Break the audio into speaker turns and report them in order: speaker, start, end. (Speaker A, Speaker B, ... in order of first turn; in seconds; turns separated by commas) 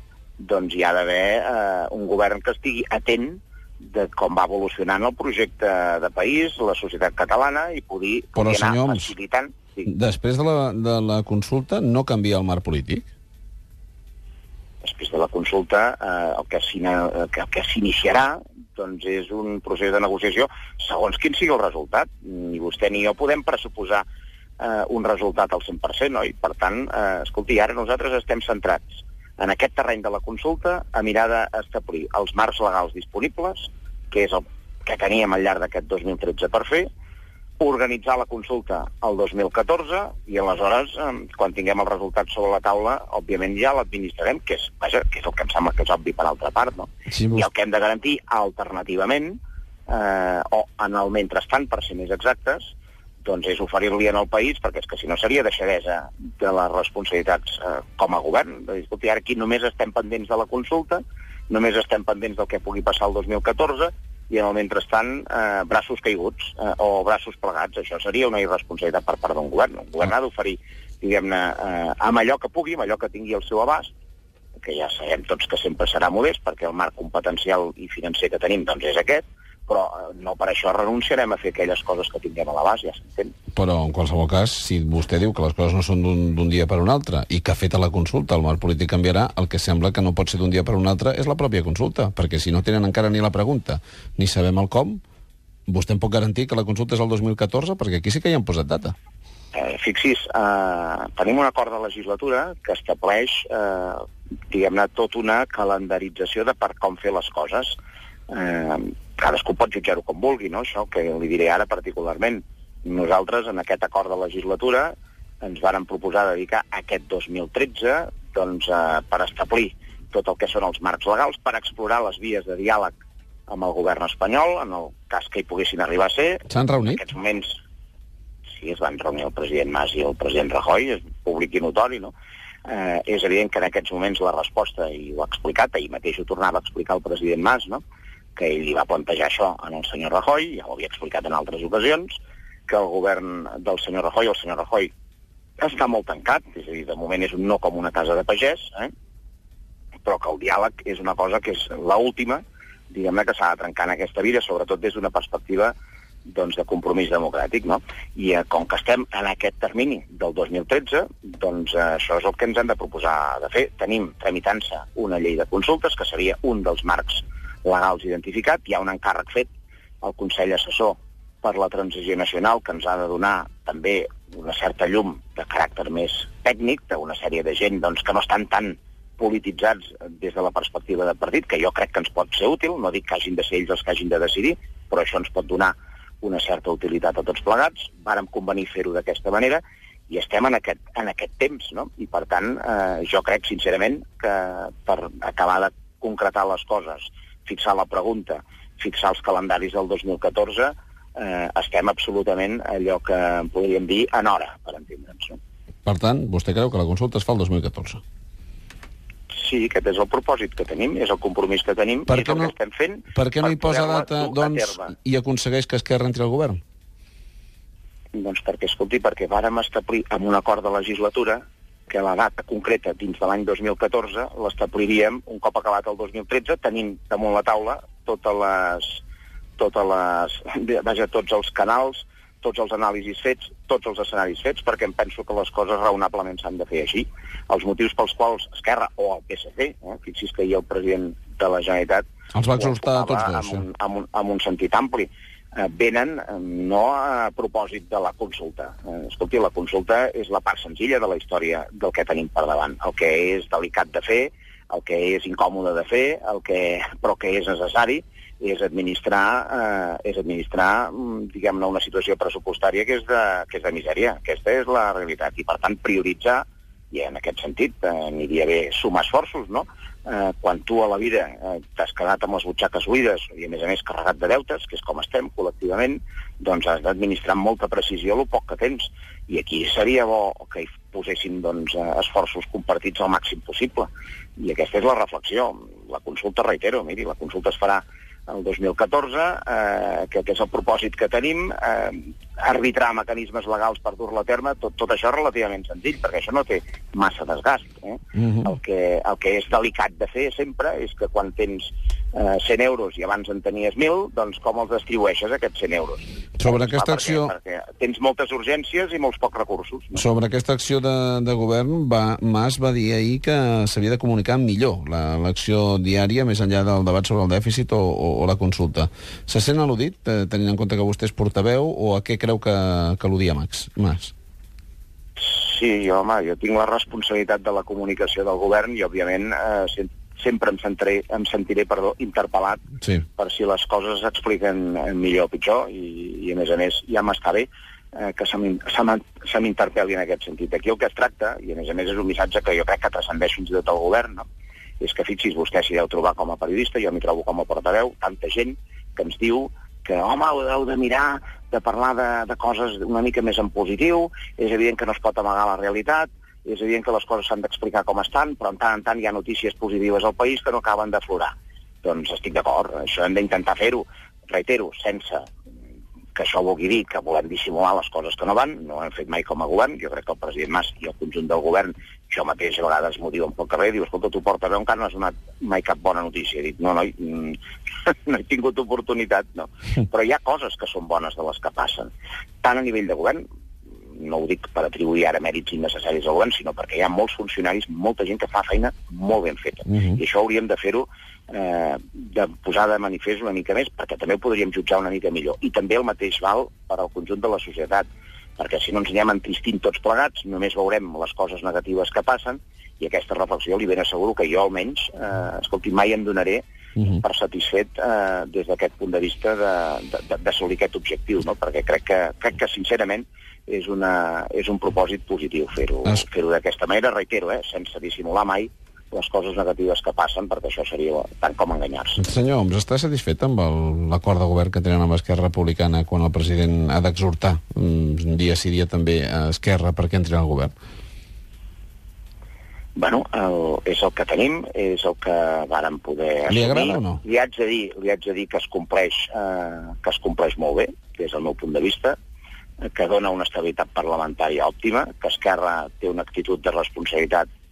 Speaker A: 0.4-9.9, Speaker B: 8.3-9.1, Speaker B: 9.8-13.1, Speaker A: 14.8-24.0, Speaker A: 24.6-36.9, Speaker A: 37.6-73.9, Speaker B: 47.1-47.5, Speaker A: 74.6-83.3, Speaker B: 83.5-95.0, Speaker B: 95.7-98.9, Speaker A: 99.5-107.7, Speaker A: 108.3-122.9, Speaker A: 123.5-127.6, Speaker B: 126.5-127.0, Speaker A: 128.6-132.1, Speaker A: 132.7-137.8, Speaker A: 138.3-142.2, Speaker A: 142.7-144.9, Speaker A: 145.6-148.9, Speaker A: 150.0-155.7, Speaker A: 156.2-169.5, Speaker A: 170.0-205.4, Speaker B: 205.8-208.0, Speaker A: 209.3-214.9, Speaker B: 212.1-212.5, Speaker B: 213.1-216.6, Speaker A: 218.1-229.0, Speaker A: 229.6-310.0, Speaker B: 242.3-243.6, Speaker B: 298.1-298.5, Speaker B: 306.4-307.3, Speaker B: 309.9-324.1, Speaker A: 325.2-332.6, Speaker A: 333.2-344.2, Speaker A: 344.8-365.3, Speaker A: 366.1-381.9, Speaker A: 382.4-383.2, Speaker A: 383.9-406.4, Speaker A: 406.9-422.0, Speaker B: 422.0-430.5, Speaker A: 432.8-441.9, Speaker B: 436.3-437.0, Speaker A: 442.7-447.2